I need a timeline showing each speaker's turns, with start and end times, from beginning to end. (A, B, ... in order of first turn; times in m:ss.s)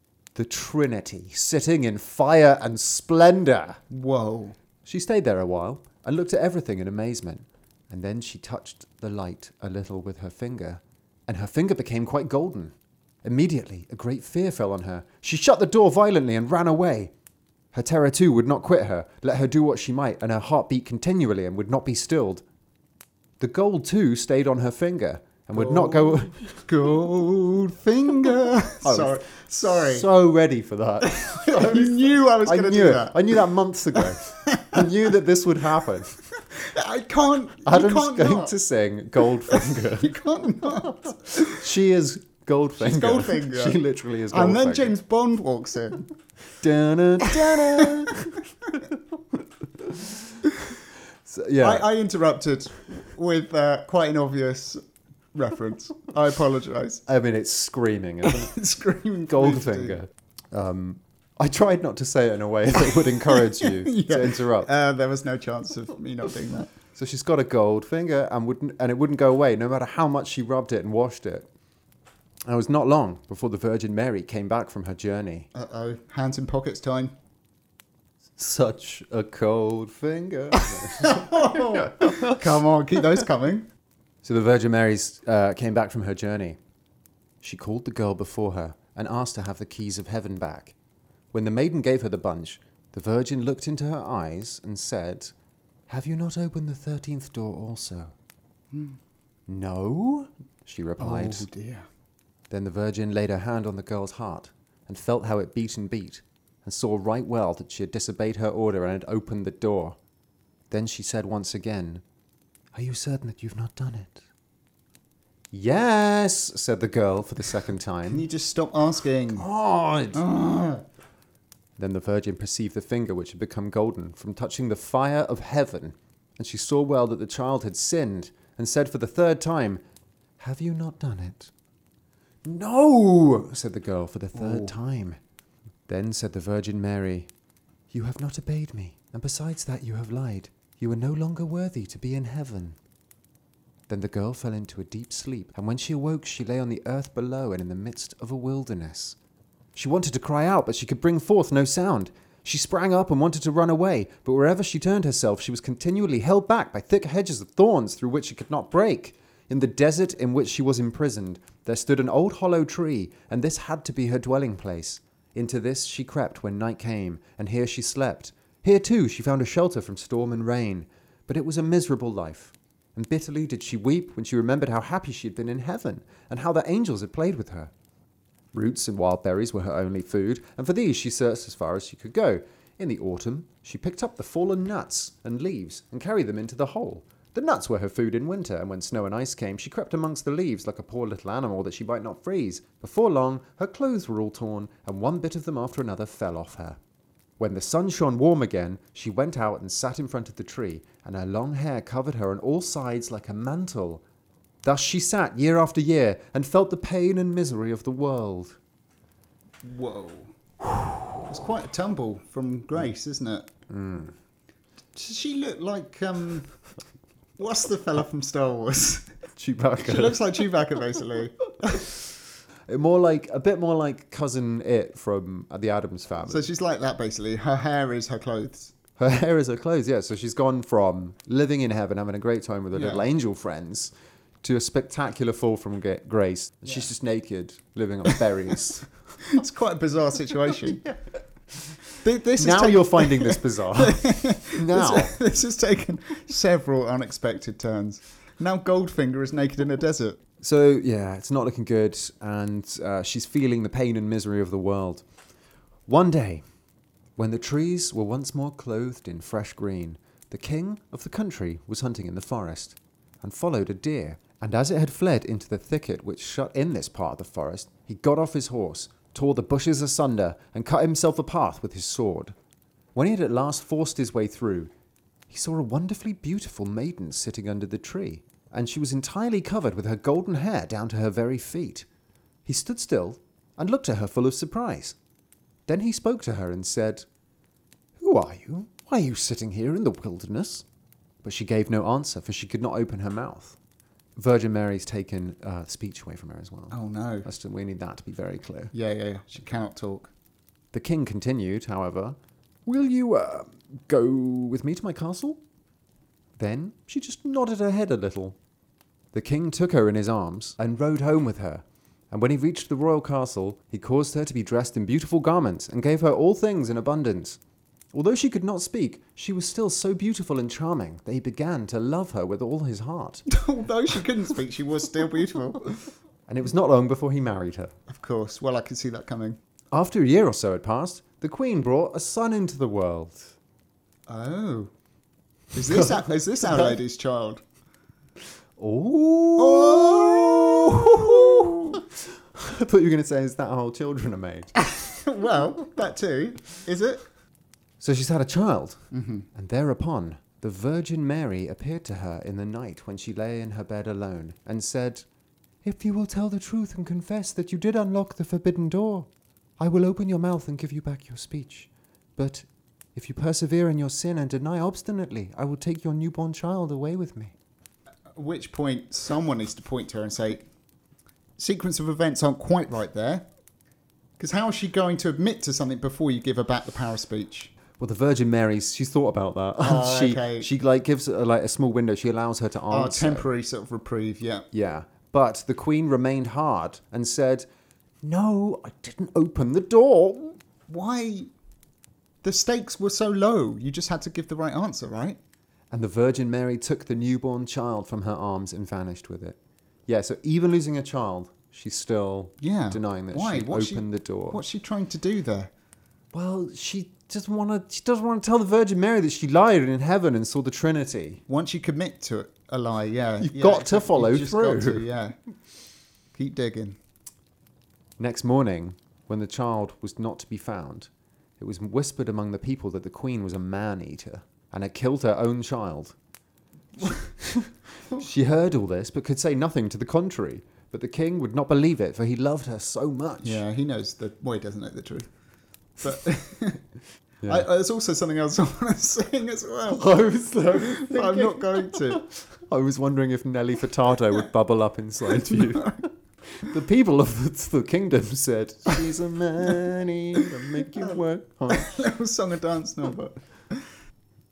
0:00.4-0:03.8 A
0:03.9-0:04.6 B
0:04.8-0:17.1 A
0:17.7-0:22.4 A
0:23.4-0:26.7 A
0:25.6-0:26.1 B
0:26.7-0:30.1 B
0:28.8-0:36.2 A
0:31.0-0:33.4 B
0:34.0-0:34.8 B
0:36.5-0:38.6 B
0:37.6-0:45.0 A
0:39.5-0:41.6 B
0:42.8-0:43.8 B
0:44.3-0:46.1 B
0:46.6-0:50.5 A
0:47.3-0:48.1 B
0:51.3-0:51.9 A
0:51.6-0:54.8 B
0:55.3-0:57.0 B
0:57.1-0:58.5 A
0:58.2-1:00.0 B
0:59.3-1:04.7 A
1:03.0-1:06.7 B
1:07.0-1:11.5 A
1:12.4-1:15.5 A
1:15.5-1:17.2 B
1:18.4-1:22.4 A
1:20.6-1:23.7 B
1:24.2-1:26.6 A
1:27.4-1:30.8 A
1:31.3-1:35.3 A
1:35.9-1:38.1 A
1:38.7-1:39.0 B
1:39.5-1:41.5 A
1:41.0-1:41.9 B
1:42.5-1:50.0 A
1:50.7-1:52.0 A
1:52.7-1:54.2 A
1:55.5-1:58.3 A
1:58.1-1:59.5 B
1:59.3-2:00.2 A
2:00.1-2:00.8 B
2:01.8-2:09.8 A
2:10.4-2:11.5 A
2:12.4-2:15.2 A
2:14.4-2:14.8 B
2:15.9-2:17.3 A
2:17.9-2:22.8 A
2:23.9-2:29.2 A
2:29.8-2:57.7 A
2:58.5-3:16.8 A
3:17.4-3:24.0 A
3:24.6-3:28.6 A
3:29.6-3:30.4 B
3:31.2-3:33.5 B
3:33.7-3:34.2 A
3:34.9-3:36.5 B
3:37.4-3:39.1 B
3:39.4-3:40.4 A
3:39.8-3:42.0 B
3:42.7-3:46.5 A
3:46.3-3:48.7 B
3:49.0-3:53.9 A
3:52.7-3:53.0 B
3:54.4-3:59.0 A
3:59.2-4:00.8 B
4:02.0-4:10.2 B
4:02.4-4:05.2 A
4:10.4-4:15.0 A
4:15.9-4:16.4 A
4:17.2-4:32.3 A
4:33.0-4:34.7 A
4:35.3-4:41.9 A
4:42.4-4:45.0 A
4:45.7-4:47.1 A
4:48.0-4:50.6 A
4:51.2-4:53.6 A
4:54.2-4:58.7 A
4:56.7-4:57.3 B
4:58.7-5:00.1 B
5:00.7-5:05.4 A
5:06.4-5:08.4 A
5:09.1-5:17.4 A
5:17.9-5:23.3 A
5:23.3-5:25.9 B
5:26.3-5:27.7 A
5:27.9-5:29.4 B
5:29.7-5:33.4 A
5:34.1-5:34.7 B
5:35.5-5:37.4 B
5:35.6-5:36.8 A
5:38.6-5:44.6 A
5:39.4-5:41.8 B
5:44.6-5:47.0 B
5:47.8-5:55.0 A
5:48.9-5:49.3 B
5:55.6-5:59.1 A
5:59.6-6:07.3 A
6:08.2-6:10.5 B
6:11.4-6:13.3 B
6:14.2-6:17.5 B
6:17.8-6:23.3 A
6:19.6-6:20.5 B
6:22.7-6:24.5 B
6:24.5-6:27.4 A
6:28.0-6:30.4 A
6:30.7-6:31.3 B
6:32.2-6:35.2 B
6:35.7-6:44.4 A
6:42.4-6:45.5 B
6:46.1-6:51.2 A
6:51.3-6:55.2 B
6:53.2-6:54.8 A
6:56.1-6:56.8 B
6:58.0-7:06.0 A
7:06.8-7:13.4 A
7:13.2-7:15.1 B
7:15.8-7:16.6 B
7:17.3-7:19.9 B
7:19.7-7:31.7 A
7:20.5-7:22.0 B
7:25.1-7:25.7 B
7:30.4-7:31.0 B
7:31.5-7:33.7 B